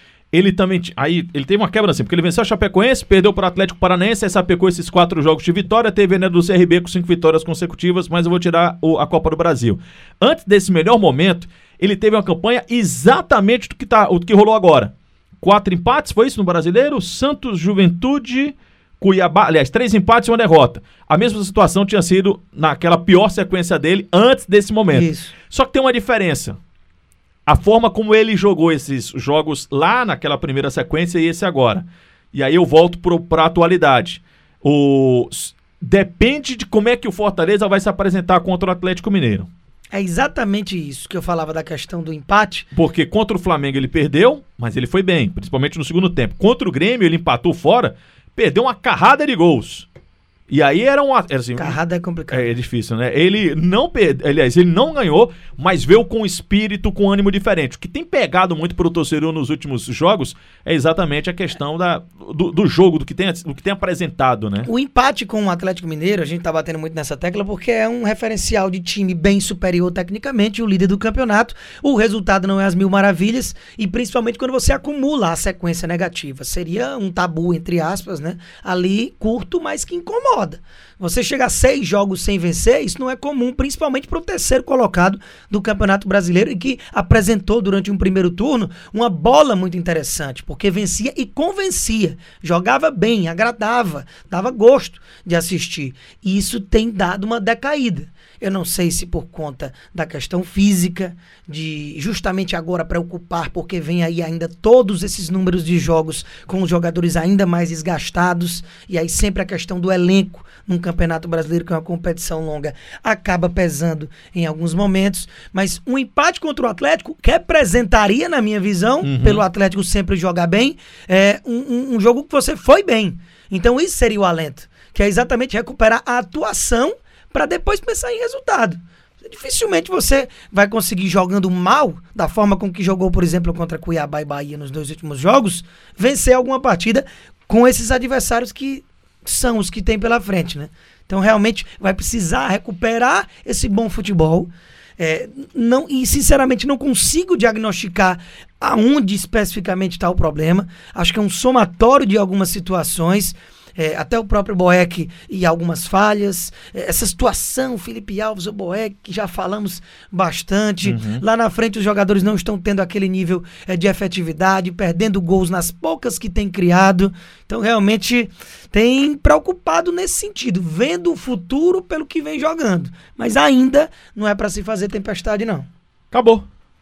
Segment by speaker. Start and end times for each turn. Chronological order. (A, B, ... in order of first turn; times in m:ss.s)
0:00.3-0:26.6 A
0:24.9-0:25.3 B
0:27.5-0:39.5 A
0:39.9-0:42.7 B
0:42.7-0:49.9 A
0:50.5-1:04.7 A
0:51.6-0:52.5 B
1:04.6-2:55.7 B
1:59.0-1:59.4 A
2:40.8-2:41.2 A
2:56.1-2:56.5 A